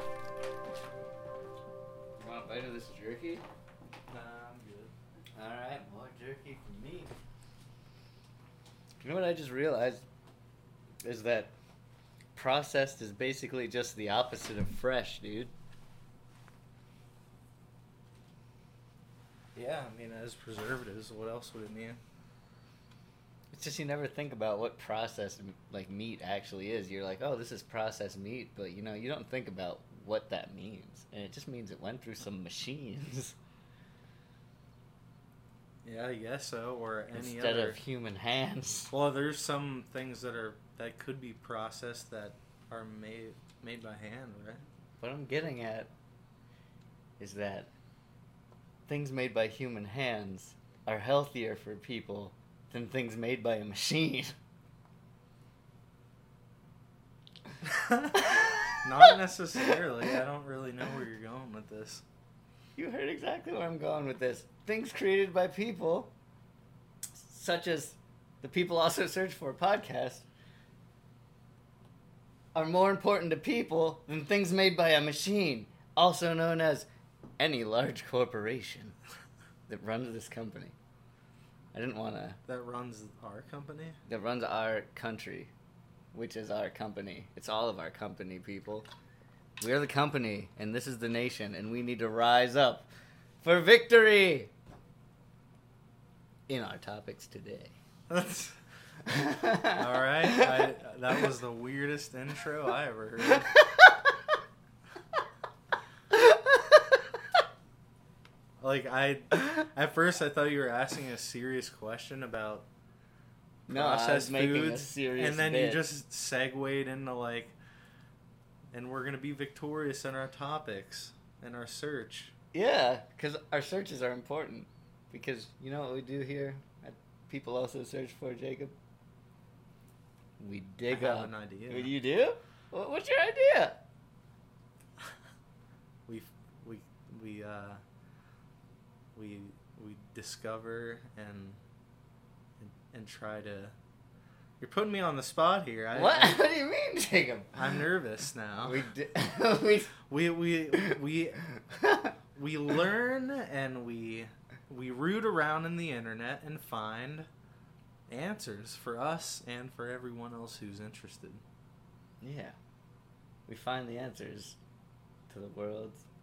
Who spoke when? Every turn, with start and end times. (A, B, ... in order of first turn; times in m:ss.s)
0:02.2-0:03.4 A
0:04.1-0:04.9 B
0:05.4-0:07.1 A
0:09.0-0:10.0 A
0:11.0-0:11.5 A
0:12.4-0:15.5 A
0:19.6-0:22.0 B
0:23.5-0:33.3 A
0:35.8-0:37.8 B
0:37.1-0:38.9 A
0:38.9-0:44.6 B
0:45.0-0:45.9 A
0:47.2-0:47.7 A
0:48.9-0:54.3 A
0:57.6-0:58.3 B
0:58.1-1:00.2 A
0:58.8-1:02.0 B
1:02.8-1:06.1 A
1:07.2-1:10.2 A
1:12.5-1:16.9 A
1:17.4-1:18.9 A
1:19.7-1:20.8 A
1:21.7-1:22.4 A
1:22.5-1:24.0 B
1:24.1-1:25.5 A
1:26.1-1:28.9 A
1:29.6-1:32.9 A
1:33.4-1:34.5 A
1:36.5-1:37.8 A
1:38.1-1:38.6 B
1:39.0-1:40.7 A
1:39.7-1:43.5 B
1:43.3-1:44.2 A
1:46.1-1:47.0 A
1:48.6-1:52.7 B
1:53.7-1:55.8 A
1:53.7-1:57.5 B
1:58.7-2:02.3 B
2:02.5-2:08.7 A
2:10.4-2:13.8 A
2:10.9-2:11.9 B
2:16.1-2:17.8 B
2:19.2-2:21.6 B
2:22.6-2:23.8 B
2:24.6-2:26.4 B
2:25.9-2:27.6 A
2:27.6-2:28.8 B
2:28.6-2:29.9 A
2:30.1-2:31.4 B
2:31.6-2:32.1 A
2:32.3-2:37.3 B
2:38.1-2:41.4 B
2:42.2-2:42.6 A
2:43.5-2:44.6 A
2:45.3-2:46.0 A